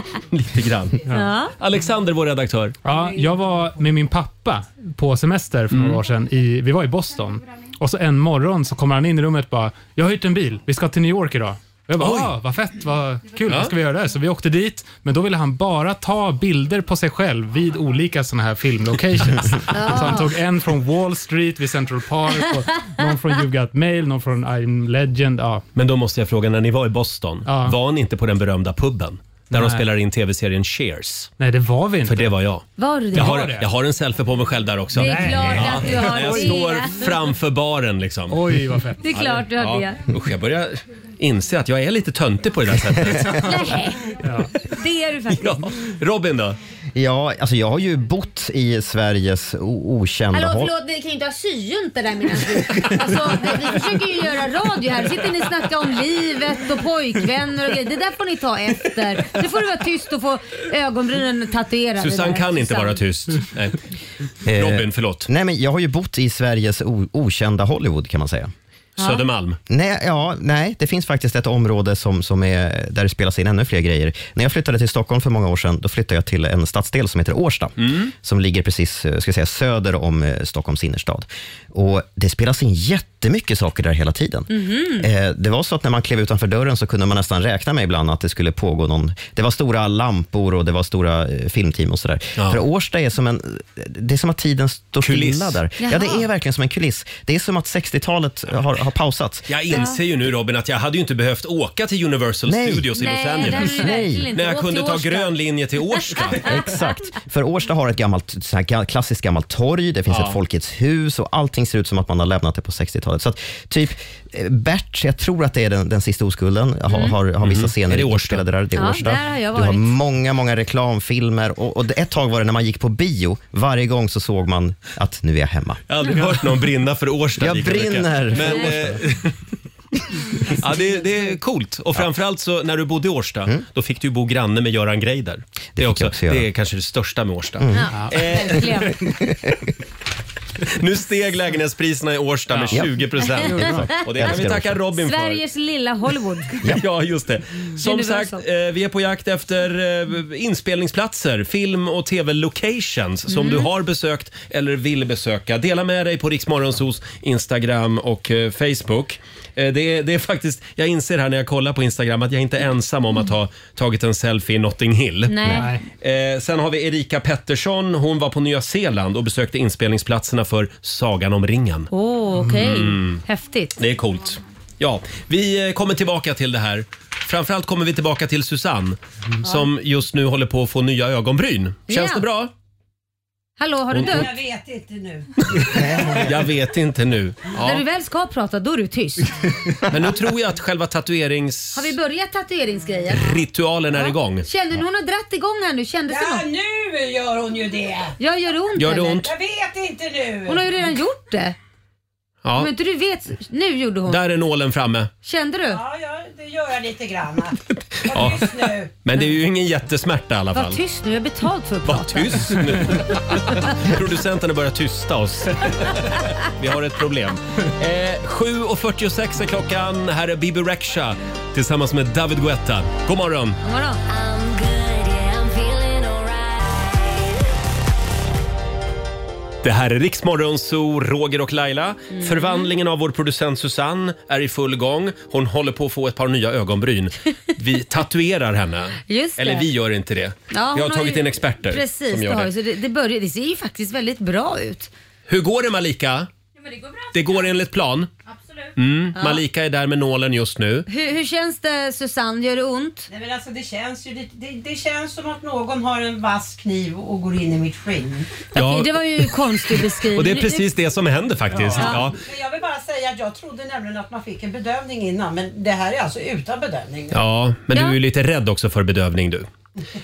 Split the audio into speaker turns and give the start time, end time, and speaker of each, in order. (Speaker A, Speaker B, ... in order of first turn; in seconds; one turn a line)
Speaker A: 0.3-2.8
Speaker B: 1.1-1.5
Speaker C: 2.8-25.6
Speaker D: 2.9-3.4
Speaker A: 5.7-6.0
Speaker A: 12.0-12.3
Speaker A: 13.5-13.8
Speaker B: 19.7-20.3
Speaker A: 25.8-31.3
Speaker C: 27.5-27.8
Speaker C: 29.5-29.9
Speaker C: 31.4-32.3
Speaker A: 32.0-38.5
Speaker B: 32.8-33.4
Speaker C: 33.2-33.7
Speaker C: 35.0-36.8
Speaker B: 35.0-37.1
Speaker C: 38.3-39.1
Speaker B: 39.0-40.0
Speaker A: 39.1-43.8
Speaker B: 43.4-44.0
Speaker C: 44.2-44.5
Speaker B: 44.6-45.7
Speaker A: 45.3-46.6
Speaker E: 47.0-50.7
Speaker B: 50.3-63.0
Speaker A: 62.0-63.8
Speaker E: 64.5-68.5
Speaker A: 64.5-65.3
Speaker B: 69.0-69.2
Speaker A: 69.0-69.6
Speaker E: 69.7-99.5
Speaker A: 77.8-78.1
Speaker B: 84.5-85.1
Speaker A: 95.0-95.6
Speaker B: 95.8-96.3
Speaker A: 99.5-106.5
Speaker B: 99.7-100.0
Speaker E: 102.5-102.9
Speaker B: 103.0-105.3
Speaker E: 103.4-104.3
Speaker E: 106.4-125.8
Speaker A: 110.1-110.4
Speaker A: 117.4-118.4
Speaker B: 118.8-119.9
Speaker A: 125.9-129.3
Speaker E: 127.4-129.0
Speaker A: 130.5-138.9
Speaker E: 135.8-136.5
Speaker E: 137.6-137.9
Speaker B: 137.7-139.0
Speaker E: 139.0-139.6
Speaker A: 140.7-145.4
Speaker C: 142.5-142.8
Speaker E: 142.7-144.8
Speaker B: 143.2-144.4
Speaker B: 145.0-146.6
Speaker A: 146.7-171.9
Speaker B: 147.8-148.4
Speaker B: 153.3-153.7
Speaker B: 165.3-165.8
Speaker C: 165.5-165.8
Speaker B: 171.9-173.8
Speaker A: 172.5-173.2
Speaker A: 173.8-182.5
Speaker B: 181.9-182.2
Speaker B: 183.6-184.3
Speaker A: 183.9-184.3
Speaker D: 184.1-186.3
Speaker A: 185.5-187.8
Speaker B: 187.6-189.3
Speaker A: 189.9-191.9
Speaker B: 191.8-193.4
Speaker A: 193.1-194.5
Speaker B: 193.9-196.5
Speaker D: 196.1-198.2
Speaker B: 198.2-199.2
Speaker A: 198.8-199.3
Speaker D: 199.2-200.7
Speaker B: 200.5-201.6
Speaker A: 202.4-202.7
Speaker B: 202.6-204.2
Speaker A: 204.1-205.1
Speaker B: 205.2-205.8
Speaker D: 205.7-208.9
Speaker A: 208.1-210.8
Speaker B: 210.6-212.9
Speaker A: 211.9-223.6
Speaker B: 223.6-224.0
Speaker F: 224.1-227.1
Speaker A: 229.6-242.5
Speaker B: 232.1-232.7
Speaker B: 239.1-239.7
Speaker B: 240.5-244.9
Speaker A: 245.3-246.3
Speaker A: 247.1-248.1
Speaker A: 248.8-250.9
Speaker B: 249.2-249.4
Speaker B: 250.9-253.1
Speaker D: 253.1-258.4
Speaker B: 258.6-260.7
Speaker A: 258.6-262.2
Speaker D: 261.6-267.2
Speaker B: 261.8-262.1
Speaker A: 267.1-269.5